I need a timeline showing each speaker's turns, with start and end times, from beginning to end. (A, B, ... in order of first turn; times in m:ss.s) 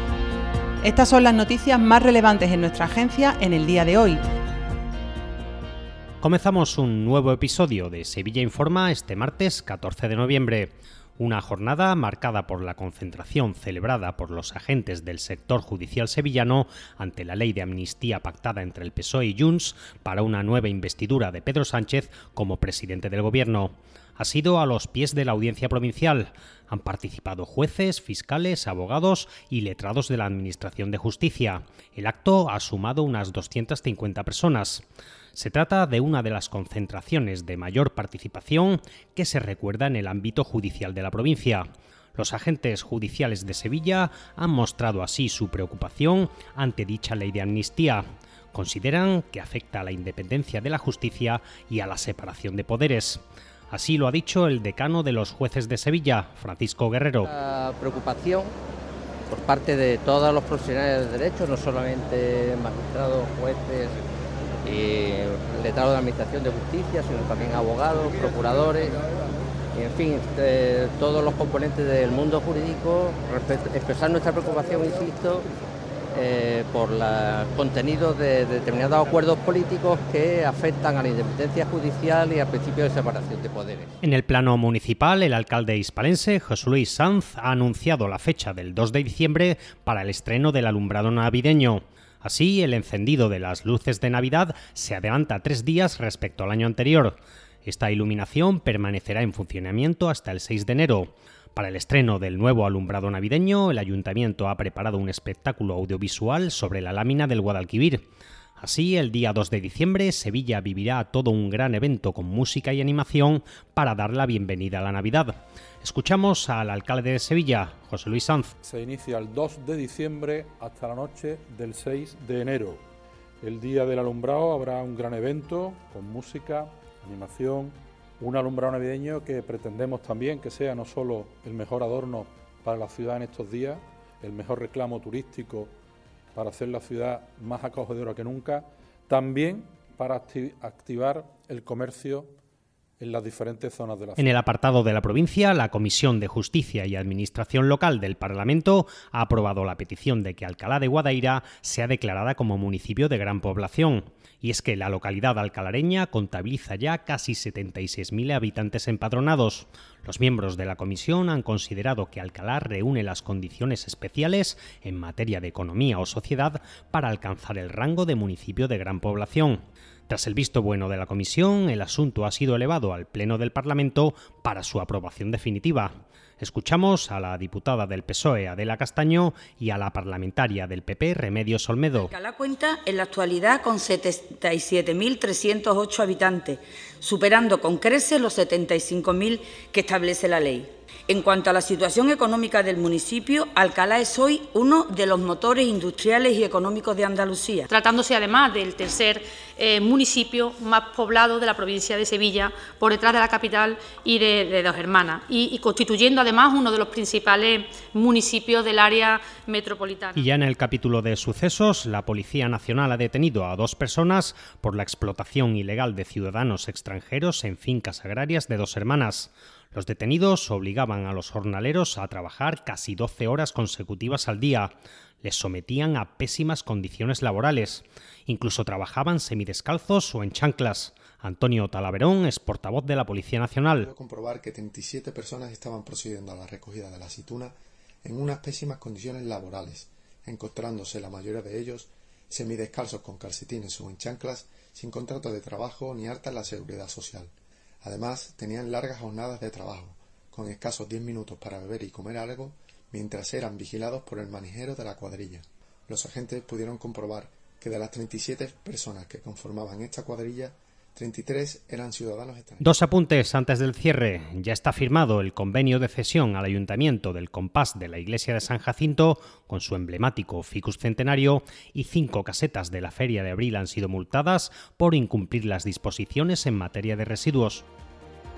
0:00.8-0:04.2 A
0:06.2-0:57.3 B
0:57.2-0:58.5 C
0:59.3-1:04.0 C
1:04.6-1:09.0 C
1:09.8-1:15.5 C
1:16.1-1:23.9 C
1:24.0-1:48.0 B
1:48.6-1:58.5 B
1:58.6-2:02.8 D
2:03.4-2:15.7 D
2:16.4-2:22.3 D
2:23.0-2:24.4 D
2:24.2-3:02.1 B
3:02.0-3:17.7 E
3:17.7-3:30.3 F
3:30.2-3:44.7 B
3:45.2-3:53.9 B
3:53.8-4:07.3 G
4:07.8-4:22.7 G
4:22.6-4:37.6 B